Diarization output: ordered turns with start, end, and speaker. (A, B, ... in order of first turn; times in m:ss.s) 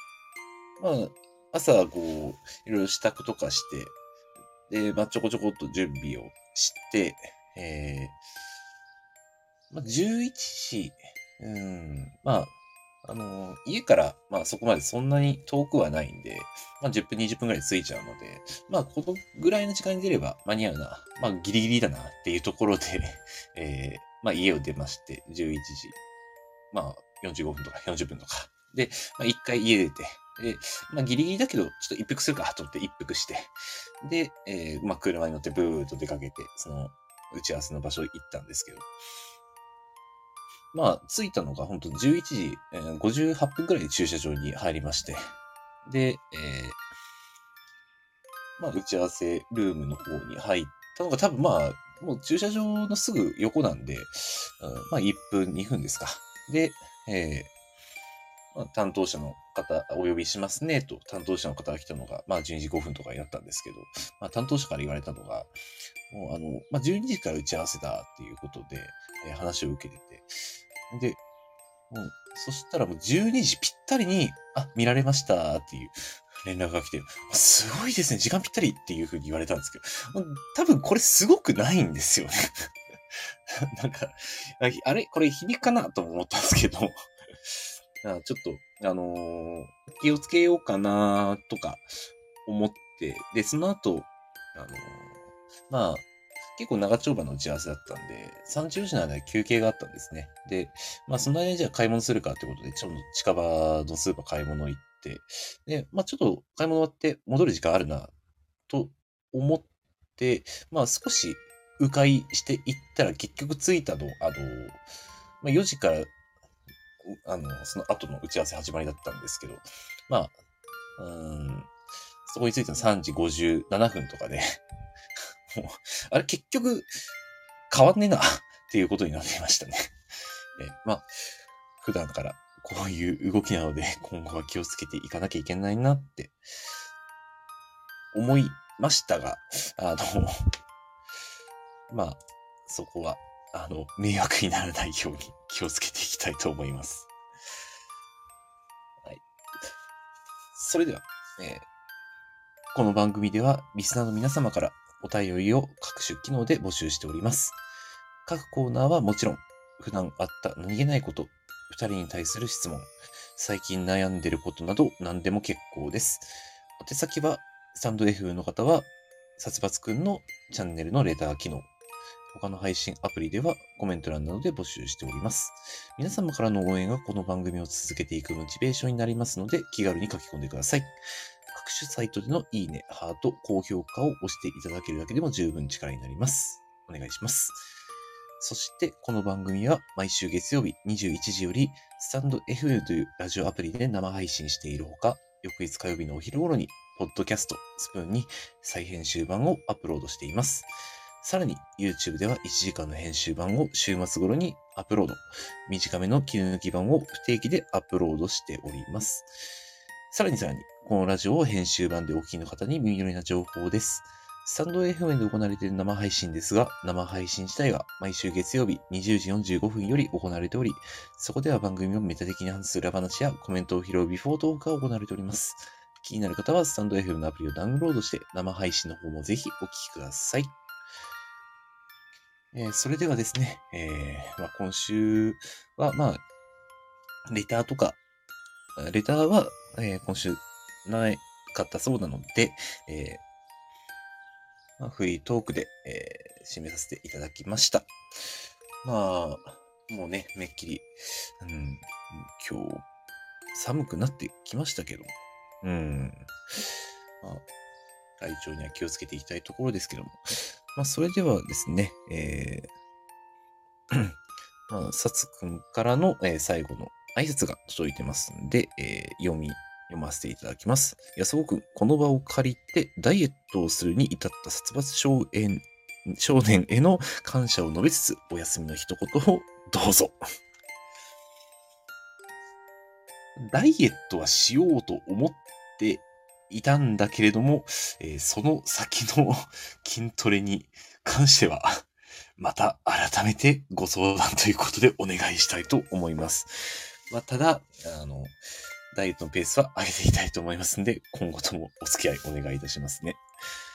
0:00.8-0:04.0 A
0:04.7-0:08.2 A
0:09.7-0:12.5 A
0:13.0-0:26.0 A
0:26.7-0:38.9 A
0:40.7-0:45.3 A
0:45.8-0:46.8 A
0:48.6-0:57.5 A
0:58.5-1:05.5 A
1:06.1-1:10.3 A
1:10.9-1:11.2 A
1:11.9-1:31.9 A
1:32.4-1:48.1 A
1:48.7-1:54.8 A
1:55.4-1:56.1 A
1:57.0-2:00.3 A
2:01.0-2:01.7 A
2:02.2-2:04.6 A
2:05.5-2:06.9 A
2:07.7-2:09.9 A
2:10.6-2:11.1 A
2:11.8-2:16.3 A
2:18.1-2:20.5 A
2:21.9-2:27.1 A
2:29.0-2:29.7 A
2:30.5-2:31.6 A
2:32.7-2:37.6 A
2:38.2-2:51.7 A
2:52.3-3:00.9 A
3:01.5-3:07.6 A
3:08.4-3:29.3 A
3:30.1-3:50.5 A
3:52.5-3:56.2 A
3:57.3-3:58.0 A
3:58.8-4:03.2 A
4:04.8-4:12.8 A
4:13.5-4:16.3 A
4:18.2-4:22.7 A
4:23.9-4:24.2 A
4:24.7-4:40.2 A
4:43.4-4:51.8 A
4:52.4-4:58.3 A
4:58.9-5:03.2 A